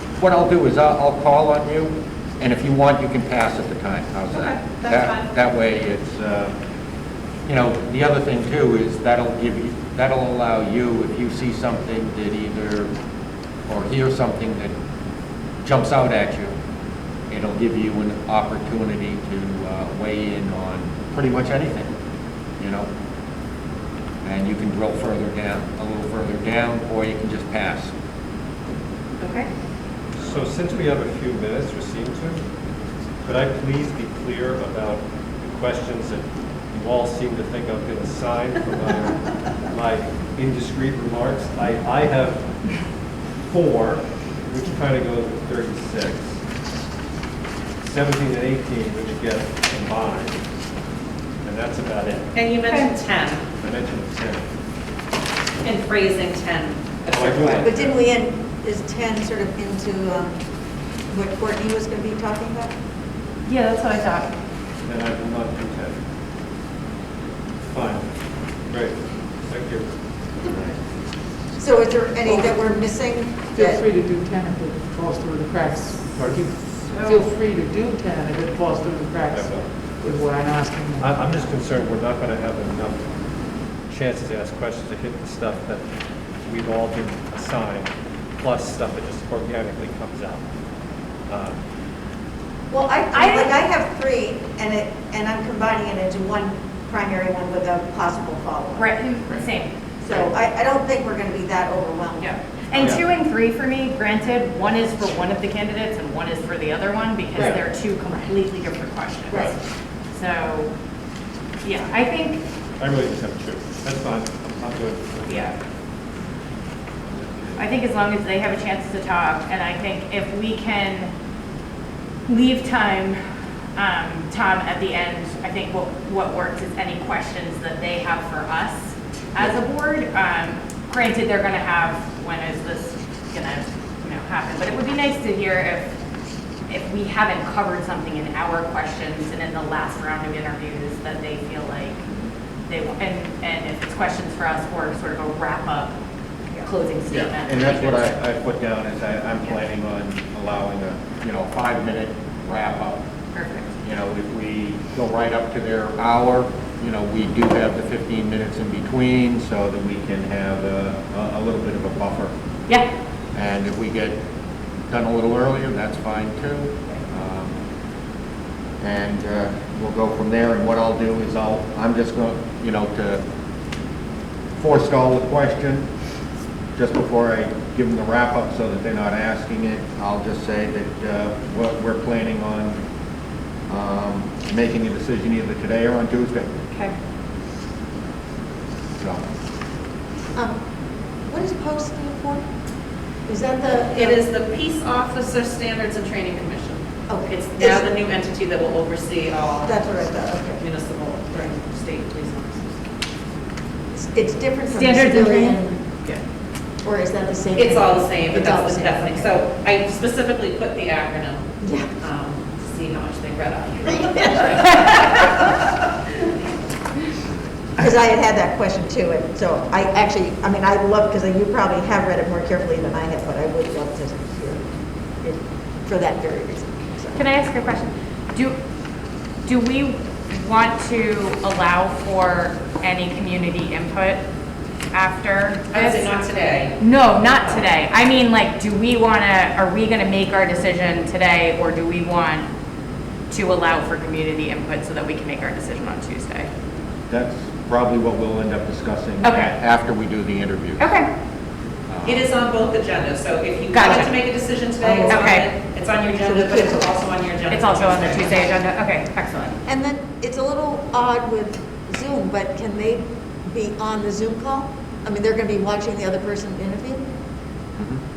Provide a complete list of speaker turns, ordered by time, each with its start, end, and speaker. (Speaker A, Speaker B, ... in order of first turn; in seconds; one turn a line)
Speaker A: 0.2-6.5
Speaker B: 4.3-5.2
Speaker A: 7.5-12.9
Speaker A: 13.7-14.7
Speaker A: 15.6-16.5
Speaker A: 17.3-21.9
Speaker A: 22.6-22.9
Speaker A: 24.2-27.9
Speaker B: 29.2-29.5
Speaker C: 30.1-32.4
Speaker C: 33.2-42.5
Speaker C: 43.4-46.4
Speaker C: 47.8-50.4
Speaker C: 51.4-52.3
Speaker B: 52.3-53.4
Speaker D: 52.6-52.9
Speaker C: 53.6-54.5
Speaker B: 55.6-57.7
Speaker C: 57.1-58.0
Speaker E: 57.6-60.4
Speaker E: 61.1-62.7
Speaker D: 63.5-64.3
Speaker C: 64.8-66.0
Speaker C: 67.6-68.1
Speaker C: 68.7-69.9
Speaker A: 70.5-70.7
Speaker E: 71.6-73.8
Speaker F: 72.3-72.5
Speaker F: 73.5-81.3
Speaker C: 76.1-76.5
Speaker D: 76.9-77.2
Speaker C: 79.3-80.1
Speaker C: 81.0-83.1
Speaker C: 83.9-85.9
Speaker C: 86.5-90.4
Speaker C: 91.3-91.6
Speaker E: 92.7-98.9
Speaker D: 93.1-93.5
Speaker D: 98.8-100.2
Speaker E: 100.0-102.9
Speaker D: 102.2-109.6
Speaker D: 110.1-110.7
Speaker D: 111.6-112.4
Speaker C: 112.8-115.5
Speaker D: 115.3-115.5
Speaker C: 117.0-117.7
Speaker D: 117.5-121.1
Speaker D: 122.3-123.2
Speaker D: 123.8-135.9
Speaker D: 136.7-142.0
Speaker D: 142.7-145.9
Speaker D: 146.6-148.2
Speaker A: 147.1-153.0
Speaker D: 153.3-153.7
Speaker A: 153.8-162.3
Speaker A: 163.3-164.2
Speaker A: 164.9-167.6
Speaker A: 168.8-173.2
Speaker A: 174.6-175.9
Speaker A: 176.8-182.8
Speaker A: 183.7-186.6
Speaker A: 189.0-189.2
Speaker E: 191.3-192.4
Speaker E: 193.2-194.2
Speaker B: 193.9-199.8
Speaker E: 197.1-197.9
Speaker E: 199.6-200.6
Speaker B: 200.6-202.8
Speaker E: 203.9-205.8
Speaker D: 204.7-206.2
Speaker E: 206.8-209.4
Speaker B: 207.5-211.4
Speaker E: 211.6-211.9
Speaker B: 212.0-215.5
Speaker E: 214.3-214.6
Speaker E: 217.8-224.7
Speaker E: 225.2-227.2
Speaker D: 227.2-228.6
Speaker D: 229.5-234.2
Speaker D: 234.9-236.2
Speaker B: 235.7-236.8
Speaker D: 236.8-242.5
Speaker B: 237.3-237.7
Speaker D: 243.3-246.5
Speaker A: 247.1-250.9
Speaker D: 249.2-249.5
Speaker D: 250.8-251.1
Speaker A: 251.9-252.3
Speaker B: 252.0-258.5
Speaker D: 253.7-254.1
Speaker E: 254.8-255.3
Speaker D: 255.1-255.5
Speaker E: 256.2-256.9
Speaker D: 257.5-259.6
Speaker E: 259.7-267.1